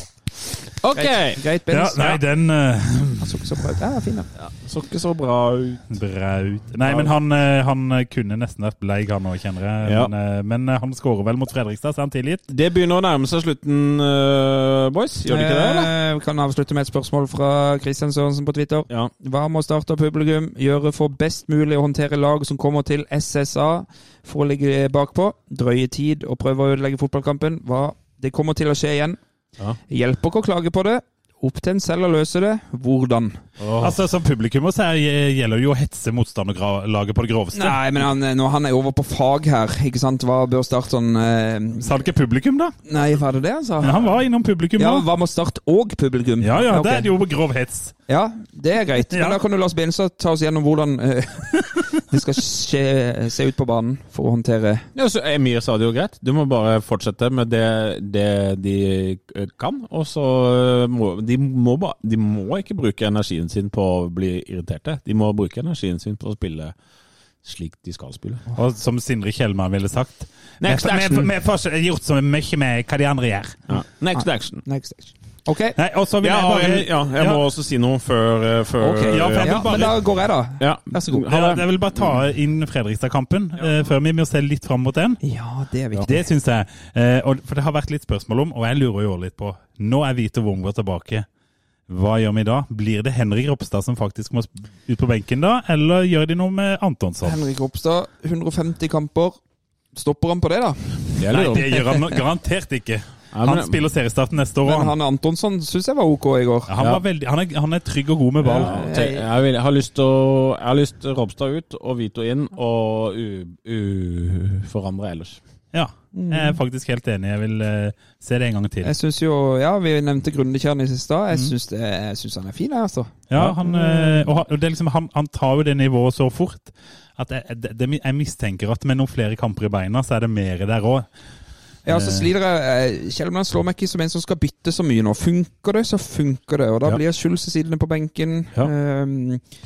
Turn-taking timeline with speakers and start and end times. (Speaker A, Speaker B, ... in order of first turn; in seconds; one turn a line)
Speaker A: 0.8-1.4
Speaker B: 0.9-2.2
Speaker C: 1.7-3.5
Speaker B: 3.2-4.3
Speaker A: 4.3-6.0
Speaker C: 5.9-12.4
Speaker A: 6.8-7.1
Speaker A: 9.8-10.1
Speaker A: 12.5-15.9
Speaker B: 15.2-29.2
Speaker B: 29.9-33.4
Speaker A: 33.6-34.0
Speaker C: 33.8-37.8
Speaker B: 37.5-41.9
Speaker C: 41.8-42.7
Speaker B: 42.9-44.0
Speaker C: 43.8-45.1
Speaker A: 43.9-44.1
Speaker B: 44.8-47.1
Speaker C: 46.4-47.9
Speaker B: 48.1-54.9
Speaker C: 49.1-49.4
Speaker A: 54.9-66.8
Speaker A: 67.4-68.4
Speaker C: 68.5-73.7
Speaker A: 70.6-71.3
Speaker A: 73.7-74.6
Speaker B: 74.1-75.8
Speaker C: 75.8-77.4
Speaker A: 76.2-80.0
Speaker B: 78.8-81.2
Speaker C: 79.1-80.0
Speaker A: 80.6-82.1
Speaker C: 81.3-85.2
Speaker B: 85.2-86.2
Speaker C: 86.1-91.2
Speaker C: 91.9-97.4
Speaker B: 97.2-99.4
Speaker B: 99.9-101.3
Speaker A: 101.2-101.7
Speaker C: 101.3-104.9
Speaker A: 103.3-103.8
Speaker B: 104.7-106.7
Speaker C: 106.7-108.8
Speaker B: 108.4-109.2
Speaker A: 108.5-115.4
Speaker C: 115.7-118.9
Speaker B: 116.1-116.6
Speaker B: 118.8-124.3
Speaker C: 123.3-131.1
Speaker B: 131.8-139.4
Speaker C: 131.9-132.3